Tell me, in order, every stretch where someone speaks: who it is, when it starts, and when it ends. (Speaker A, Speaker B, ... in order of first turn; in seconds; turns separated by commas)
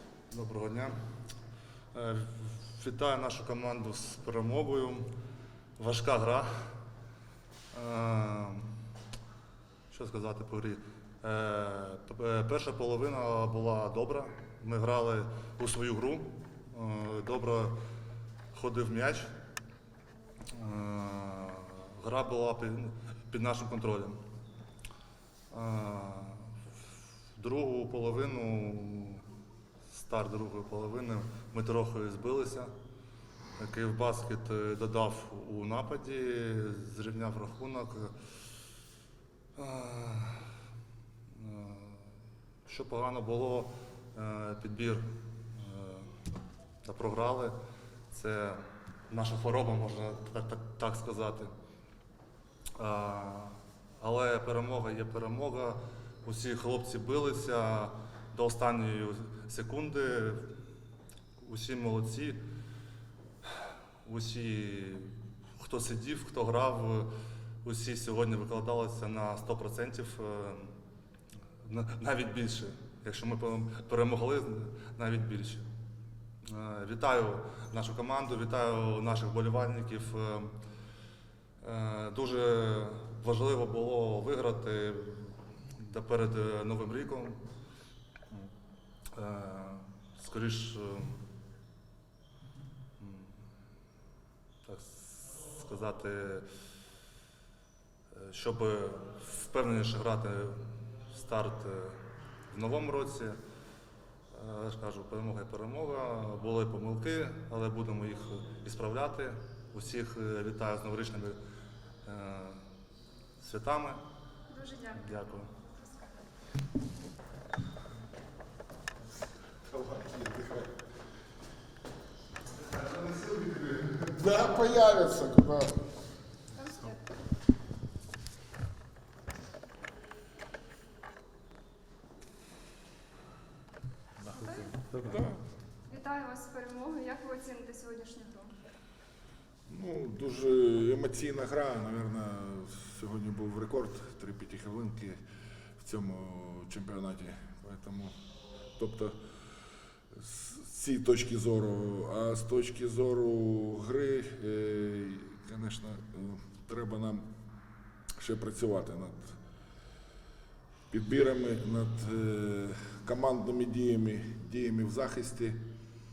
Speaker A: 0.3-0.9, Speaker A: 1.9-5.1, Speaker A: 5.8-6.5, Speaker A: 7.7-8.8, Speaker A: 9.9-17.8, Speaker A: 18.5-19.3, Speaker A: 20.5-24.2, Speaker A: 25.5-26.6, Speaker A: 27.4-29.2, Speaker A: 29.9-32.7, Speaker A: 33.6-38.1, Speaker A: 39.5-40.5, Speaker A: 41.3-42.1, Speaker A: 42.6-46.1, Speaker A: 46.8-47.5, Speaker A: 48.1-51.5, Speaker A: 52.8-60.5, Speaker A: 61.4-62.4, Speaker A: 63.5-67.1, Speaker A: 67.6-70.8, Speaker A: 71.6-75.7, Speaker A: 76.4-80.5, Speaker A: 81.6-87.4, Speaker A: 89.1-91.2, Speaker A: 93.0-93.3, Speaker A: 94.6-96.5, Speaker A: 98.1-103.4, Speaker A: 104.3-111.4, Speaker A: 112.0-112.6, Speaker A: 113.4-114.0, Speaker B: 114.5-116.3, Speaker A: 115.0-115.5, Speaker C: 119.7-120.7, Speaker A: 122.8-124.0, Speaker C: 124.0-125.8, Speaker B: 126.5-127.0, Speaker B: 134.3-134.8, Speaker C: 134.9-135.4, Speaker B: 135.9-138.5, Speaker C: 139.7-145.2, Speaker C: 145.8-148.1, Speaker C: 148.8-149.1, Speaker C: 150.1-157.2, Speaker C: 158.2-159.3, Speaker C: 160.9-165.6